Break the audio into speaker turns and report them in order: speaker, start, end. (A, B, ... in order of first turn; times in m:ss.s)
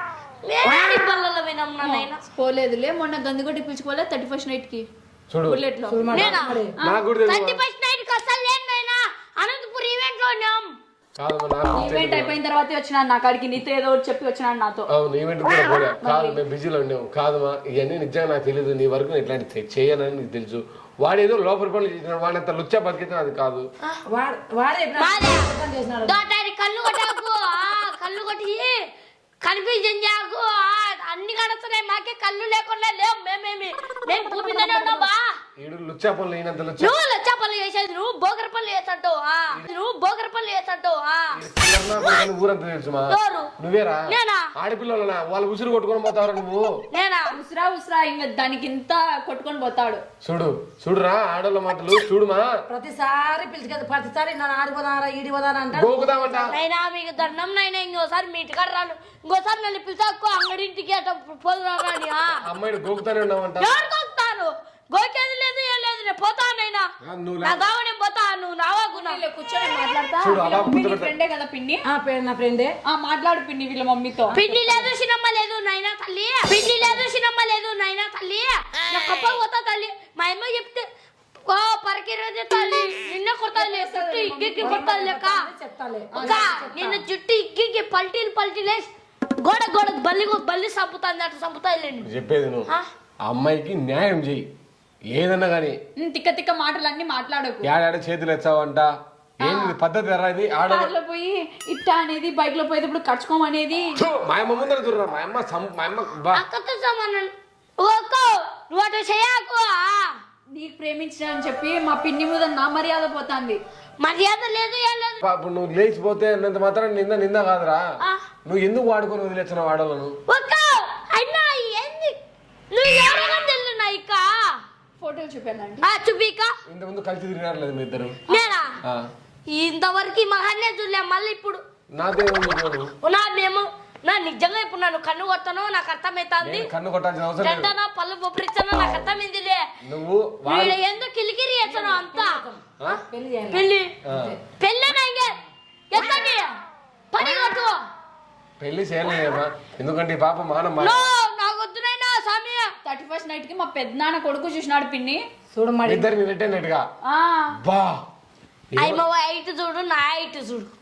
0:00.4-0:02.2 A
0:01.8-0:04.8 B
0:05.3-0:05.6 C
0:05.4-0:06.3 B
0:05.9-0:06.7 D
0:06.1-0:06.6 A
0:06.8-0:07.6 C
0:07.2-0:10.7 A
0:11.2-0:12.3 C
0:11.7-0:14.9 B
0:14.9-0:23.6 C
0:16.0-0:16.4 B
0:24.1-0:26.2 D
0:25.0-0:25.5 A
0:26.0-0:28.8 A
0:29.4-0:35.3 A
0:34.4-0:35.1 D
0:35.6-0:37.0 C
0:36.8-0:41.4 A
0:41.3-0:46.7 C
0:43.1-0:43.5 A
0:44.1-0:44.4 A
0:46.9-0:47.3 A
0:47.3-0:50.0 B
0:50.2-0:52.5 C
0:52.7-0:56.5 D
0:55.7-0:56.5 C
0:56.5-1:02.3 A
1:02.4-1:03.7 C
1:03.6-1:06.9 A
1:07.0-1:07.6 C
1:07.4-1:09.2 A
1:08.9-1:11.8 B
1:10.2-1:11.1 C
1:11.9-1:12.7 D
1:12.8-1:14.4 B
1:14.3-1:20.8 A
1:14.3-1:14.9 D
1:21.5-1:25.5 A
1:23.6-1:24.9 B
1:24.6-1:27.0 D
1:26.1-1:26.5 B
1:26.2-1:28.9 A
1:29.4-1:32.1 A
1:32.0-1:32.7 C
1:33.2-1:34.4 C
1:35.1-1:35.8 C
1:36.0-1:37.6 B
1:37.6-1:38.9 C
1:39.4-1:40.9 C
1:39.4-1:39.8 A
1:40.7-1:44.0 B
1:44.0-1:46.4 C
1:46.3-1:50.1 A
1:50.5-1:53.6 B
1:54.0-1:55.2 A
1:55.2-1:57.8 C
1:58.4-2:00.1 C
2:00.3-2:02.2 A
2:02.7-2:04.6 A
2:05.0-2:05.9 B
2:05.8-2:06.5 A
2:06.7-2:08.2 C
2:08.3-2:08.6 B
2:08.3-2:08.8 A
2:09.5-2:11.6 A
2:12.0-2:12.9 C
2:13.0-2:16.7 A
2:16.4-2:17.7 C
2:17.4-2:19.6 A
2:19.8-2:20.8 C
2:20.4-2:22.4 A
2:21.6-2:24.4 D
2:23.5-2:23.9 A
2:24.0-2:24.3 C
2:24.6-2:25.4 A
2:25.9-2:26.5 A
2:27.1-2:27.8 A
2:28.6-2:31.1 C
2:30.8-2:32.7 A
2:32.8-2:35.2 B
2:35.5-2:36.1 D
2:35.8-2:36.8 C
2:37.0-2:37.6 B
2:37.6-2:38.0 C
2:38.7-2:39.0 C
2:38.8-2:40.7 A